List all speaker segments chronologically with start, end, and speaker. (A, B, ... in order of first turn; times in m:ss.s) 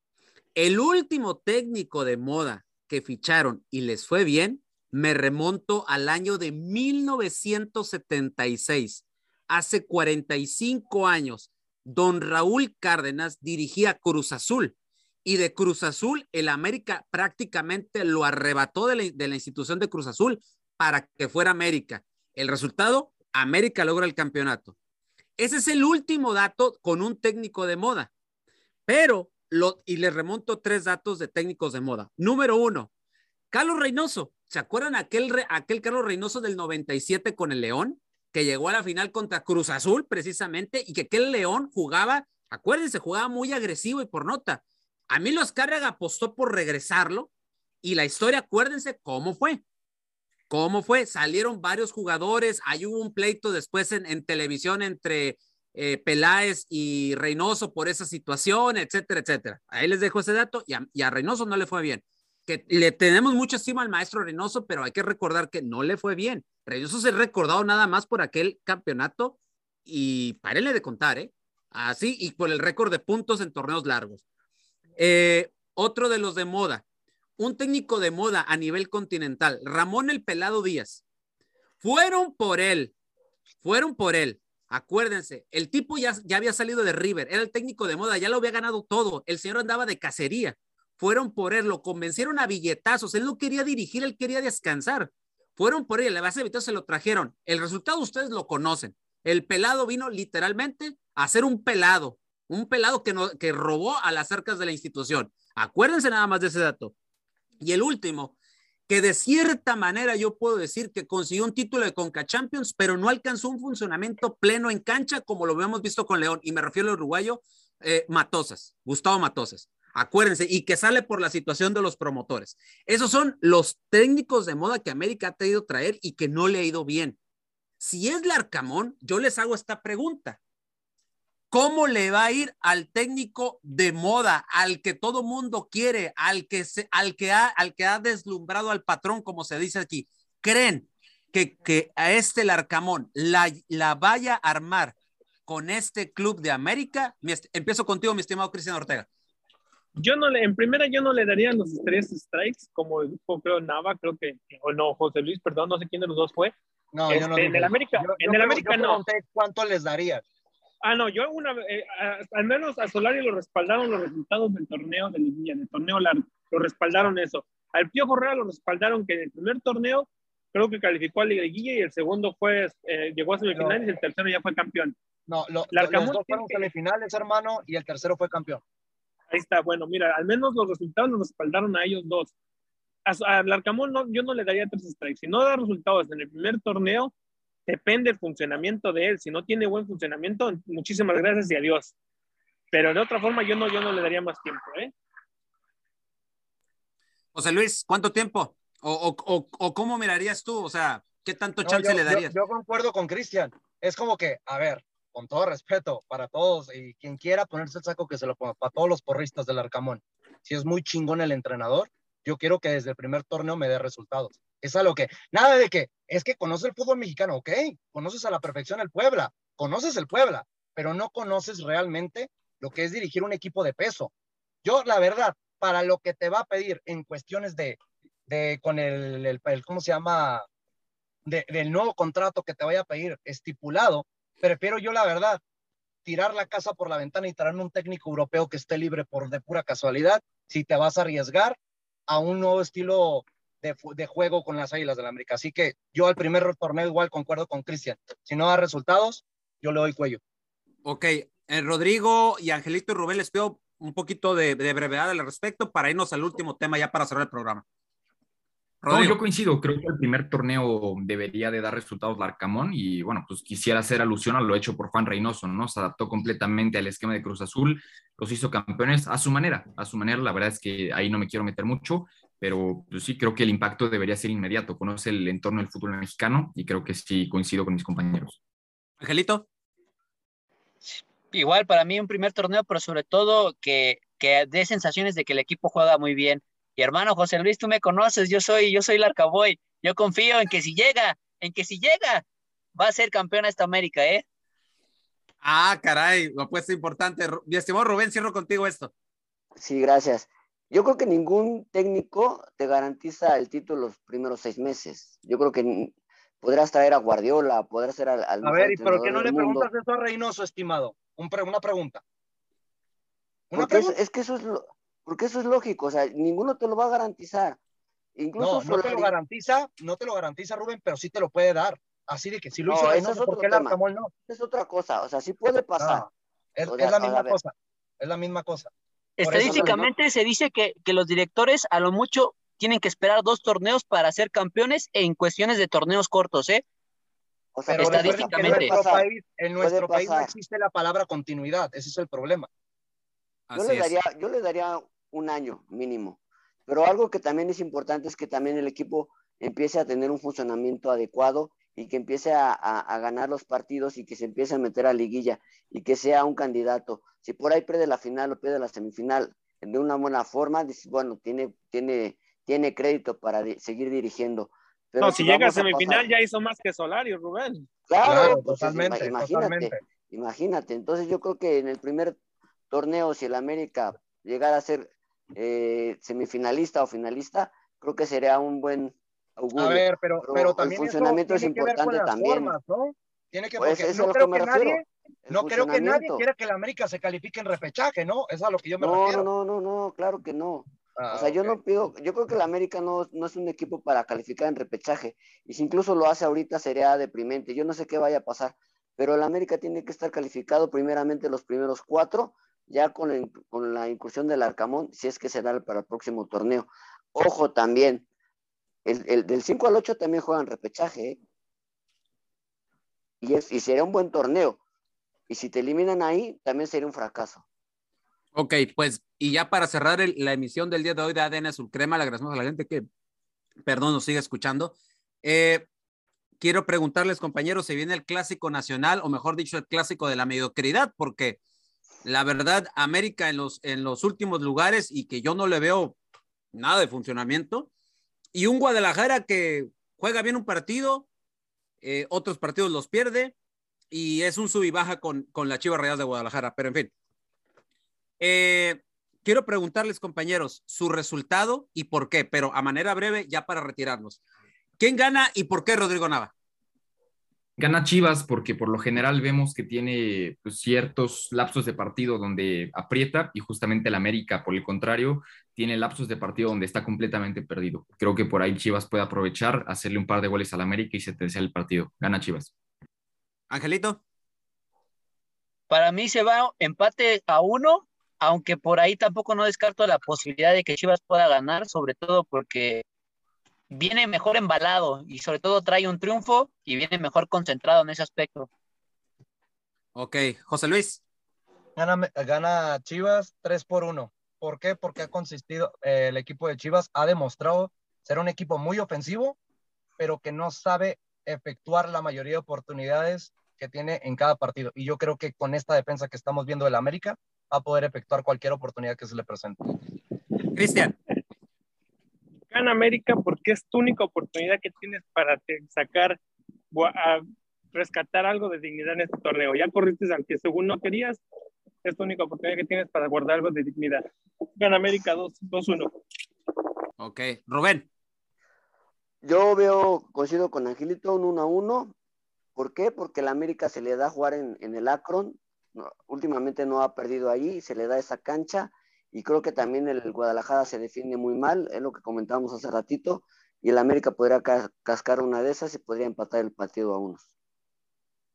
0:00.6-0:24.7 A
0:25.4-0:28.1 A
0:28.9-0:32.9 A
0:33.5-0:47.3 A
0:47.8-0:49.6 A
0:50.5-1:14.2 A
1:15.0-1:16.8 A
1:17.4-1:21.0 A
1:21.8-1:22.9 A
1:23.6-1:46.9 A
1:47.6-1:48.4 A
1:48.9-2:07.2 A
2:07.8-2:10.4 A
2:11.5-2:24.9 A
2:25.5-2:29.1 A
2:30.0-2:36.5 B
2:36.9-2:40.2 C
2:37.1-2:39.0 B
2:40.8-2:55.0 B
2:53.5-2:53.8 C
2:55.3-2:58.6 C
2:55.7-2:56.7 B
2:59.3-3:02.3 B
3:03.0-3:07.1 B
3:07.7-3:11.9 B
3:12.7-3:14.9 B
3:17.3-3:22.3 A
3:21.6-3:44.1 C
3:44.6-3:50.4 C
3:51.2-3:55.4 C
3:56.0-4:10.2 C
4:10.8-4:17.6 A
4:18.8-4:19.2 A
4:18.9-4:38.4 D
4:39.0-4:39.4 A
4:40.8-4:54.2 E
4:55.4-4:58.9 A
4:59.6-5:09.7 F
5:08.4-5:12.0 C
5:13.5-5:14.0 C
5:13.5-5:17.6 F
5:18.2-5:19.1 F
5:18.4-5:24.1 C
5:22.6-5:26.1 F
5:25.8-5:29.8 C
5:26.6-5:27.4 F
5:29.2-5:36.6 E
5:29.4-5:29.9 F
5:37.5-5:39.1 F
5:37.7-5:42.5 C
5:37.7-5:38.7 E
5:39.6-5:40.3 F
5:43.5-5:43.9 A
5:43.5-6:06.1 F
6:05.0-6:07.7 B
6:07.9-6:12.2 F
6:08.0-6:09.8 C
6:12.7-6:22.5 F
6:19.6-6:29.2 C
6:23.6-6:26.2 F
6:28.8-6:48.0 F
6:31.0-6:31.6 C
6:48.8-6:51.2 F
6:53.2-6:54.6 F
6:55.3-6:57.4 F
6:58.3-7:02.8 A
7:03.6-7:05.6 A
7:06.4-7:11.4 A
7:12.0-7:16.0 A
7:16.5-7:17.7 A
7:18.3-7:21.1 A
7:21.8-7:23.3 A
7:23.9-7:26.9 A
7:28.2-7:34.2 A
7:34.8-7:36.3 A
7:37.6-7:52.5 D
7:53.5-7:54.0 A
7:55.7-8:02.8 E
8:03.7-8:08.5 E
8:09.9-8:11.0 A
8:11.8-8:19.4 C
8:20.0-8:29.7 C
8:30.5-8:31.0 A
8:32.5-8:36.2 B
8:36.7-8:41.2 B
8:41.8-8:44.0 B
8:44.6-8:45.9 B
8:47.0-8:47.9 A
8:49.2-8:51.9 F
8:52.6-9:07.3 F